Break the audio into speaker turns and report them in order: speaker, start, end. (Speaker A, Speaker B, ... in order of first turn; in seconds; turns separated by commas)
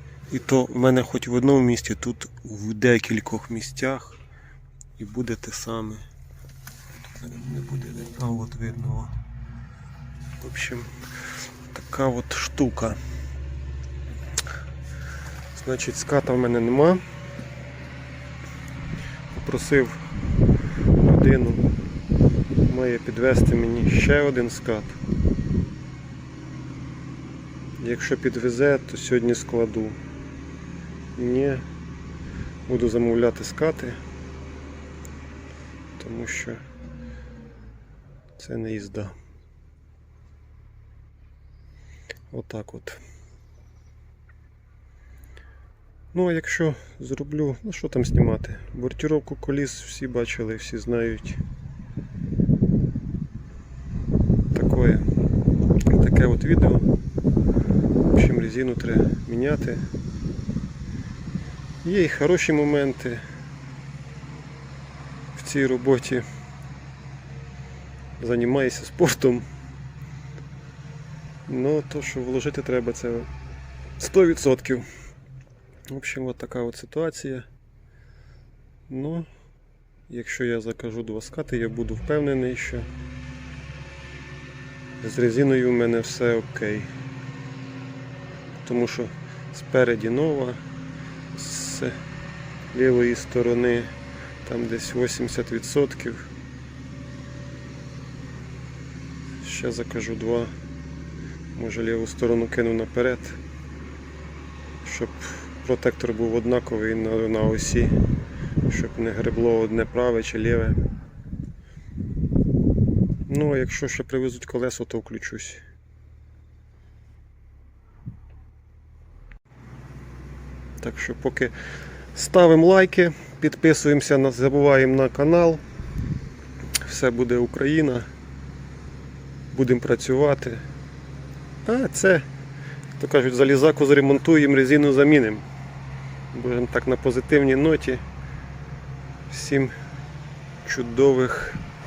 Speaker A: 0.3-4.2, Speaker A: 5.0-6.0, Speaker A: 7.2-9.1, Speaker A: 10.4-10.9, Speaker A: 11.7-13.0, Speaker A: 15.5-17.0, Speaker A: 19.3-20.0, Speaker A: 21.0-21.6, Speaker A: 22.6-24.9, Speaker A: 27.8-30.0, Speaker A: 31.1-31.6, Speaker A: 32.7-34.0, Speaker A: 36.0-36.6, Speaker A: 38.4-39.1, Speaker A: 42.3-43.0, Speaker A: 46.1-51.4, Speaker A: 54.5-55.0, Speaker A: 55.9-56.9, Speaker A: 58.1-59.8, Speaker A: 61.8-63.2, Speaker A: 65.3-66.2, Speaker A: 68.2-69.5, Speaker A: 71.5-73.3, Speaker A: 74.0-74.8, Speaker A: 75.9-77.5, Speaker A: 78.9-79.3, Speaker A: 80.1-82.9, Speaker A: 85.0-86.9, Speaker A: 88.6-90.6, Speaker A: 91.3-92.0, Speaker A: 92.7-93.9, Speaker A: 94.4-96.3, Speaker A: 99.4-100.5, Speaker A: 101.5-103.4, Speaker A: 104.8-108.0, Speaker A: 108.7-110.8, Speaker A: 113.2-115.6, Speaker A: 120.8-121.5, Speaker A: 122.1-125.6, Speaker A: 126.8-128.1, Speaker A: 129.5-130.6, Speaker A: 131.6-132.3, Speaker A: 133.0-135.4, Speaker A: 136.3-138.0, Speaker A: 139.3-139.7, Speaker A: 140.6-141.6